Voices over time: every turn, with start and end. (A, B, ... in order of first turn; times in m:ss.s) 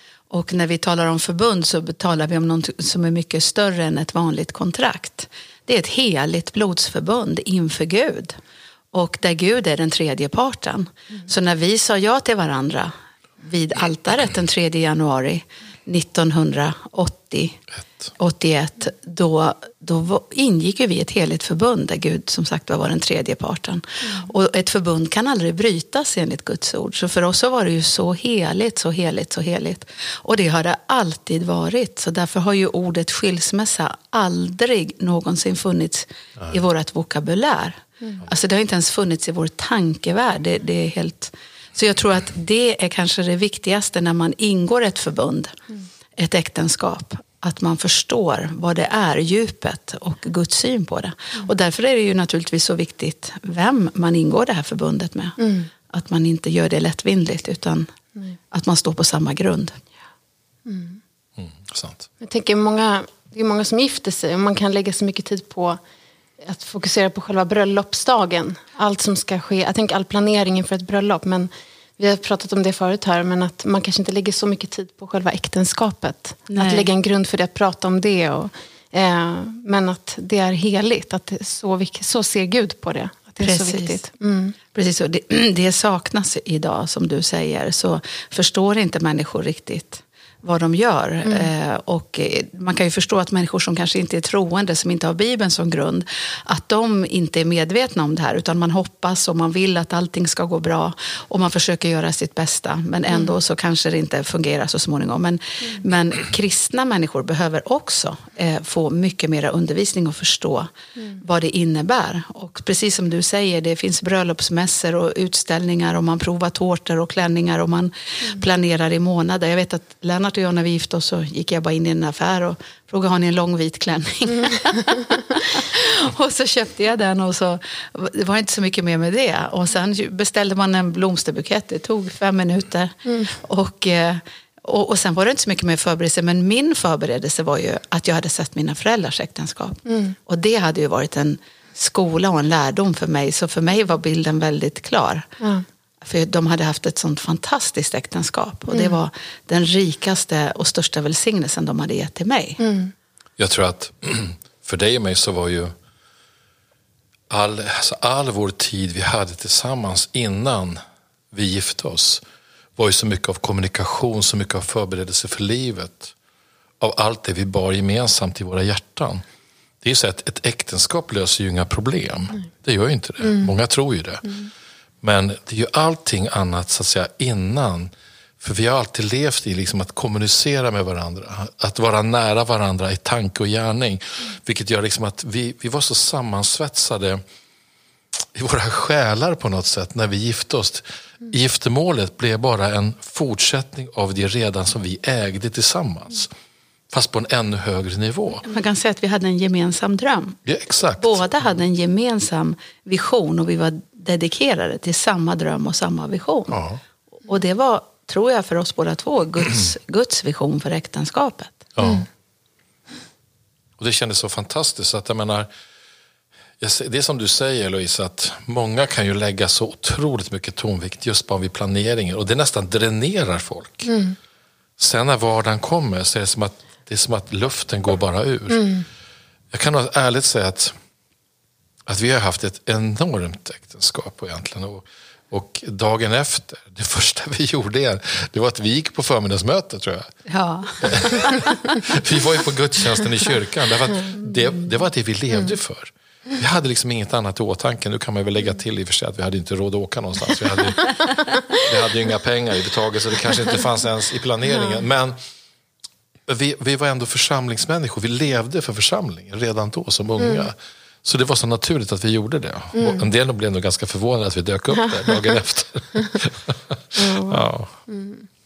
0:00.3-0:08.4 A
0:08.9-0:17.6 A
0:18.2-0:45.6 A
0:46.2-0:55.4 A
0:55.4-0:55.7 B
0:55.9-0:57.9 A
0:58.5-0:59.8 A
1:00.7-1:01.0 B
1:01.4-1:02.1 C
1:02.2-1:05.8 B
1:06.4-1:24.6 B
1:16.5-1:16.9 A
1:23.4-1:24.0 A
1:24.7-2:25.3 A
1:31.2-1:31.5 B
2:13.1-2:13.3 B
2:19.9-2:20.2 B
2:26.0-2:32.6 A
2:28.7-2:29.0 B
2:32.6-2:32.9 B
2:33.4-2:35.7 C
2:37.3-2:40.8 C
2:41.3-2:42.2 C
2:42.8-2:46.1 C
2:46.8-2:49.2 C
2:49.8-2:54.3 C
2:53.2-2:53.5 B
2:55.0-3:07.2 C
3:08.3-3:16.3 C
3:16.9-3:18.5 C
3:18.5-3:20.4 A
3:20.5-3:21.2 C
3:21.0-3:26.6 A
3:26.5-3:26.8 C
3:27.3-3:31.7 A
3:31.8-3:32.1 C
3:33.8-3:35.5 C
3:36.6-3:43.9 C
3:43.9-3:44.2 B
3:44.8-3:48.8 C
3:48.5-3:48.9 B
3:49.5-3:50.7 C
3:51.9-4:00.1 C
4:00.3-4:01.5 A
4:00.8-4:01.3 C
4:01.8-4:15.2 C
4:04.2-4:04.8 A
4:16.3-4:27.7 C
4:20.2-4:20.5 B
4:22.7-4:23.1 B
4:24.8-4:25.3 B
4:27.0-4:28.3 B